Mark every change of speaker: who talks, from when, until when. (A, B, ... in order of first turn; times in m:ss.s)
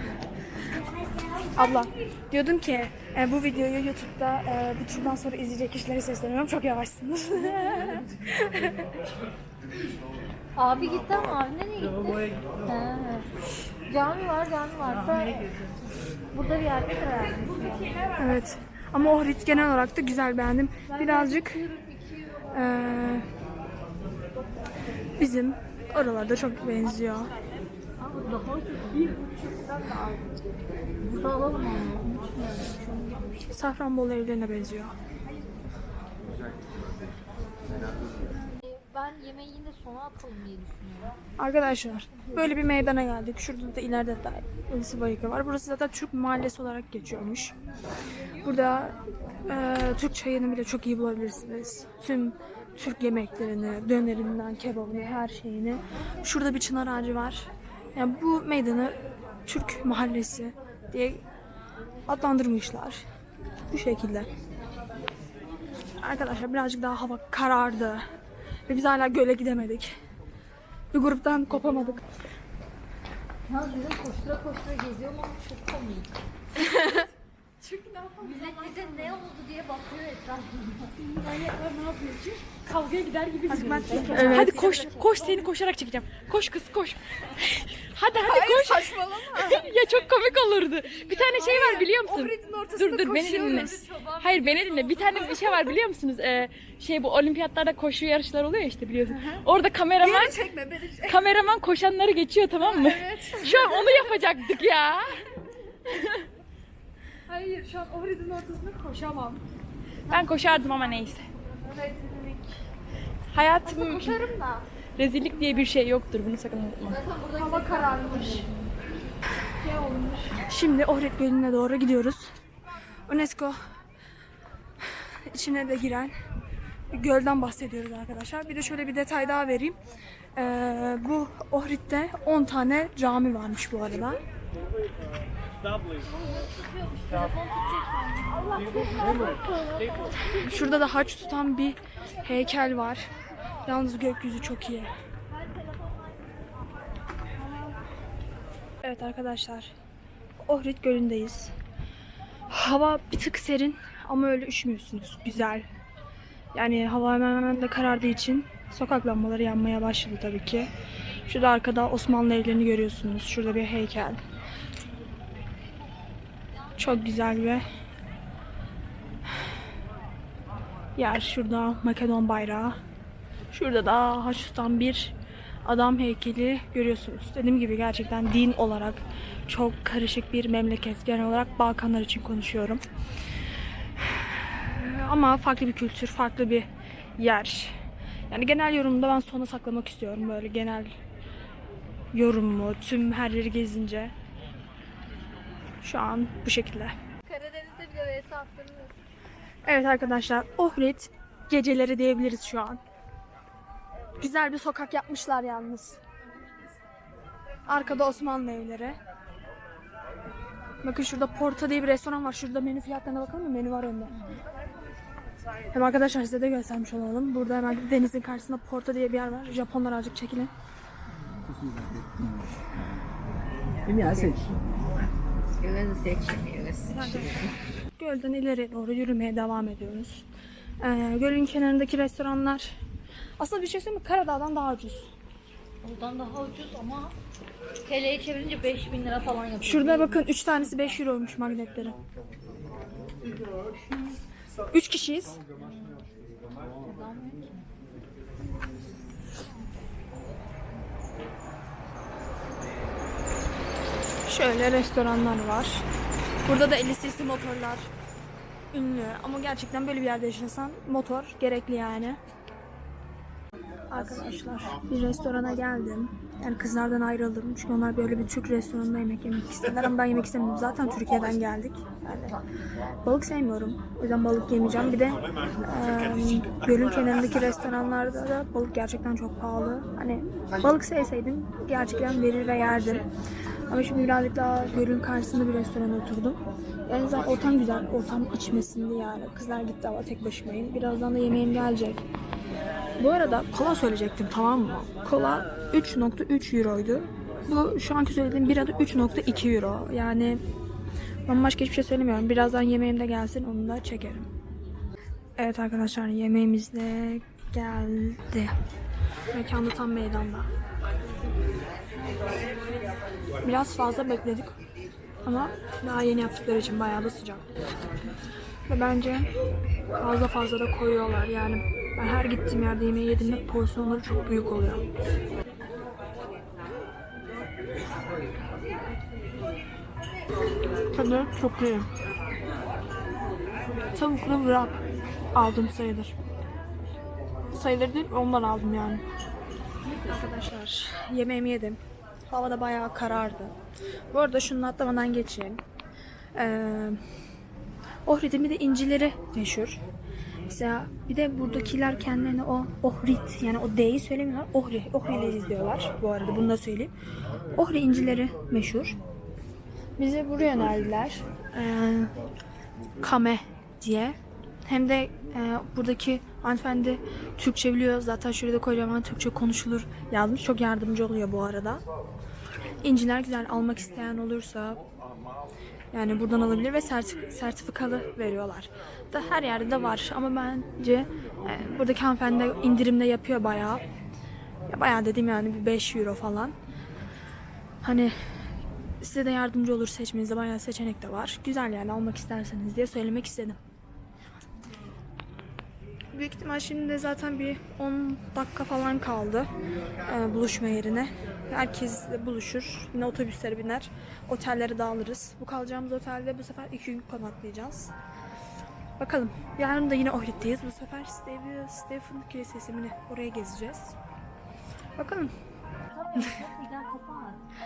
0:01.6-0:08.8 A
0:10.6-0:13.2 B
0:13.9-0:15.4 B
0:16.3-0:18.0 B
0:18.2-0:21.6 A
0:20.9-0:22.4 B
0:22.5-0:23.3 A
0:25.2-0:27.3 A
0:28.0-0:30.4 B
0:31.0-0:33.4 B
0:33.5-0:34.9 A
0:38.5-0:41.2 B
0:41.4-0:47.5 A
0:48.4-1:01.2 A
1:02.0-1:03.0 A
1:03.7-1:04.3 A
1:06.0-1:08.1 A
1:08.7-1:10.0 A
1:10.9-1:12.0 A
1:13.5-1:16.2 B
1:16.5-1:17.1 C
1:17.6-1:19.2 C
1:18.2-1:21.0 B
1:21.0-1:40.4 C
1:23.5-1:24.7 A
1:23.5-1:25.5 B
1:28.1-1:29.7 A
1:31.1-1:31.5 B
1:31.2-1:33.9 A
1:33.6-1:35.7 B
1:39.1-1:39.4 A
1:40.0-1:41.3 A
1:41.0-1:45.2 C
1:42.6-1:44.2 A
1:45.9-1:46.2 C
1:47.3-1:49.4 A
1:50.1-1:51.2 C
1:51.6-1:52.5 A
1:53.3-1:54.3 C
1:53.6-1:54.6 A
1:55.0-1:57.0 C
1:56.8-1:58.5 B
1:57.4-1:58.5 A
1:59.6-2:02.3 A
2:03.1-2:03.6 A
2:04.8-2:06.1 A
2:06.9-2:09.8 A
2:10.4-2:14.2 A
2:16.5-2:19.4 B
2:20.3-2:23.1 A
2:23.6-2:24.9 A
2:28.8-2:29.7 A
2:30.4-2:31.5 A
2:32.5-2:35.7 A
2:36.5-2:40.7 A
2:41.3-2:44.2 A
2:46.8-2:47.6 A
2:50.9-2:52.8 A
2:53.5-2:55.1 A
2:55.6-3:02.8 A
3:04.0-3:06.7 A
3:07.2-3:07.8 A
3:08.3-3:10.9 A
3:12.1-3:14.1 A
3:15.8-3:16.9 A
3:17.2-3:18.9 B
3:19.6-3:22.8 A
3:24.2-3:26.0 A
3:27.7-3:29.0 A
3:30.8-3:34.2 A
3:35.7-3:40.5 A
3:43.9-3:44.4 B
3:45.6-3:46.9 B
3:46.9-3:50.2 A
3:50.8-3:52.8 A
3:53.4-3:55.1 A
3:55.8-3:57.2 B
3:57.8-4:00.3 B
3:59.6-4:02.0 A
4:04.7-4:05.4 A
4:05.6-4:06.1 B
4:06.8-4:07.7 B
4:14.2-4:15.8 A
4:16.4-4:17.9 A
4:18.7-4:22.2 A
4:23.9-4:32.4 A
4:33.0-4:43.1 A
4:43.7-4:52.0 A
4:53.0-5:00.4 A
5:01.3-5:04.3 A
5:05.4-5:08.5 A
5:09.3-5:10.5 A
5:13.4-5:14.6 A
5:15.2-5:17.5 A
5:18.7-5:19.3 A
5:20.0-5:24.8 A
5:30.9-5:31.9 A
5:33.9-5:34.8 A
5:35.3-5:36.1 A
5:37.5-5:39.0 A
5:39.9-5:43.5 A
5:44.1-5:45.6 A
5:46.4-5:47.0 A
5:48.0-5:49.8 A
5:50.5-5:56.9 A
5:57.5-5:59.0 A
6:00.0-6:02.1 A
6:03.0-6:11.8 A
6:12.8-6:14.8 A
6:15.9-6:23.8 A
6:24.7-6:26.5 A
6:27.8-6:28.1 A
6:29.0-6:33.6 A
6:36.1-6:39.5 A
6:40.0-6:47.9 A
6:49.0-6:54.0 A
6:55.0-6:55.3 A
6:55.9-6:57.4 B